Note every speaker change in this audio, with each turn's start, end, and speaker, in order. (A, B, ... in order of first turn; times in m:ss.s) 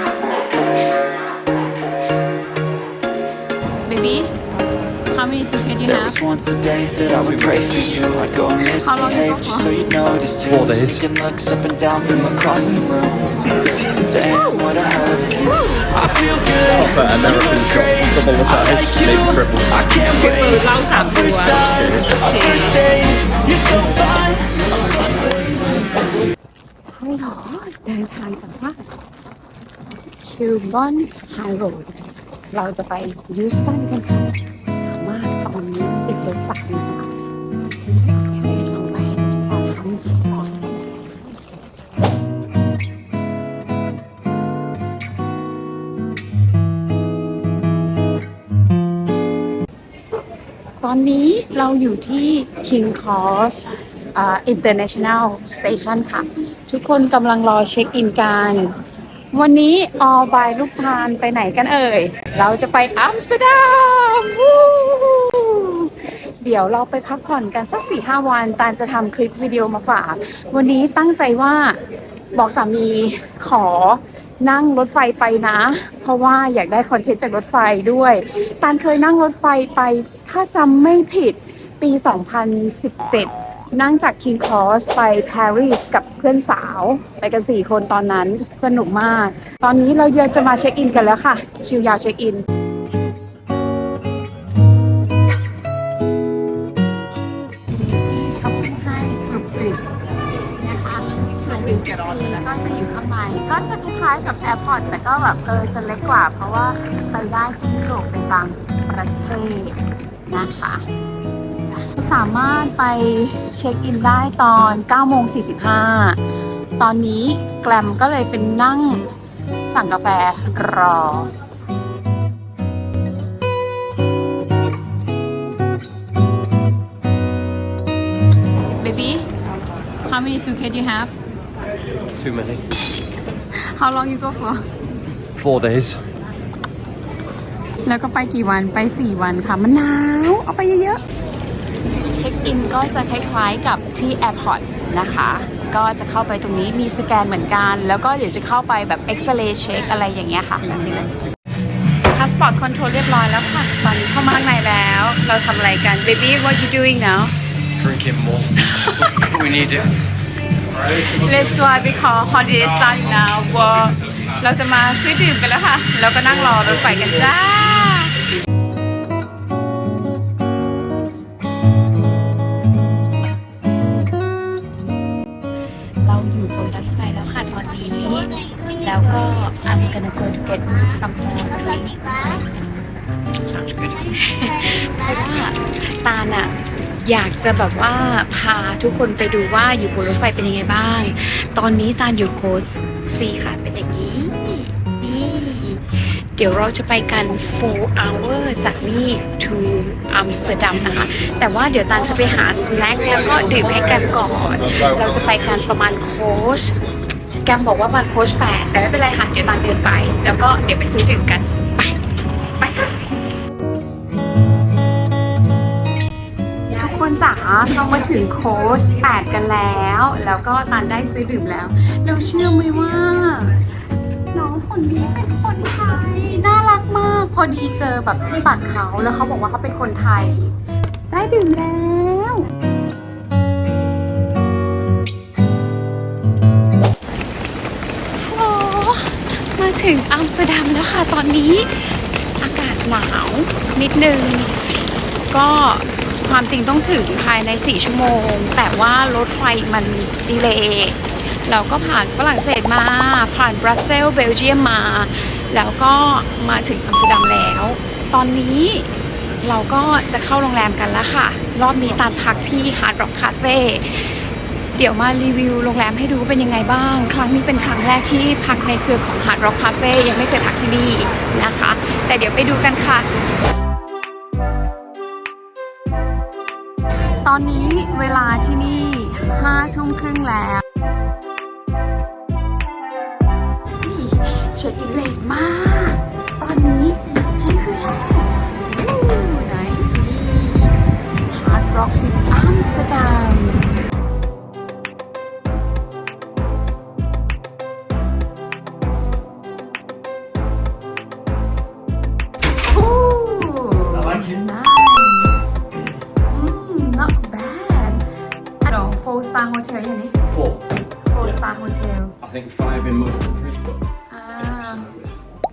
0:03.9-0:04.4 A
0:05.1-0:06.2 A
0:05.9-0:15.1 B
0:07.3-0:07.6 C
0:08.6-0:09.7 A
0:10.5-0:11.0 C
0:14.1-0:16.0 A
0:16.6-0:19.9 C
0:20.0-0:23.1 A
0:21.6-0:22.3 C
0:26.9-0:28.8 A
0:30.2-0:37.1 A
0:38.1-0:41.4 A
0:50.8-0:58.7 A
0:59.3-1:11.8 A
1:12.3-1:32.4 A
1:37.7-1:39.9 A
1:40.6-1:50.9 A
1:51.7-1:56.2 A
1:56.8-1:59.1 A
1:59.7-2:01.3 A
2:08.8-2:09.3 A
2:10.0-2:11.1 A
2:12.2-2:12.6 C
2:13.5-2:14.7 A
2:15.4-2:16.0 C
2:17.8-2:21.0 A
2:22.1-2:31.1 A
2:32.1-2:37.3 A
2:37.8-2:38.5 C
2:38.6-2:39.2 A
2:39.2-2:39.9 C
2:41.1-2:48.2 A
2:56.0-3:02.5 A
3:03.5-3:04.0 C
3:04.0-3:26.7 A
3:27.4-3:32.0 A
3:32.6-3:33.0 A
3:36.7-3:43.6 A
3:44.3-3:50.6 A
3:51.1-3:52.5 A
3:58.2-4:33.1 A
4:37.2-4:40.6 A
4:43.8-4:50.8 A
4:51.3-4:53.6 A
5:02.6-5:05.6 A
5:06.2-5:08.1 A
5:08.6-5:10.2 A
5:10.3-5:10.6 C
5:11.1-5:12.2 A
5:12.2-5:13.8 C
5:14.1-5:14.9 A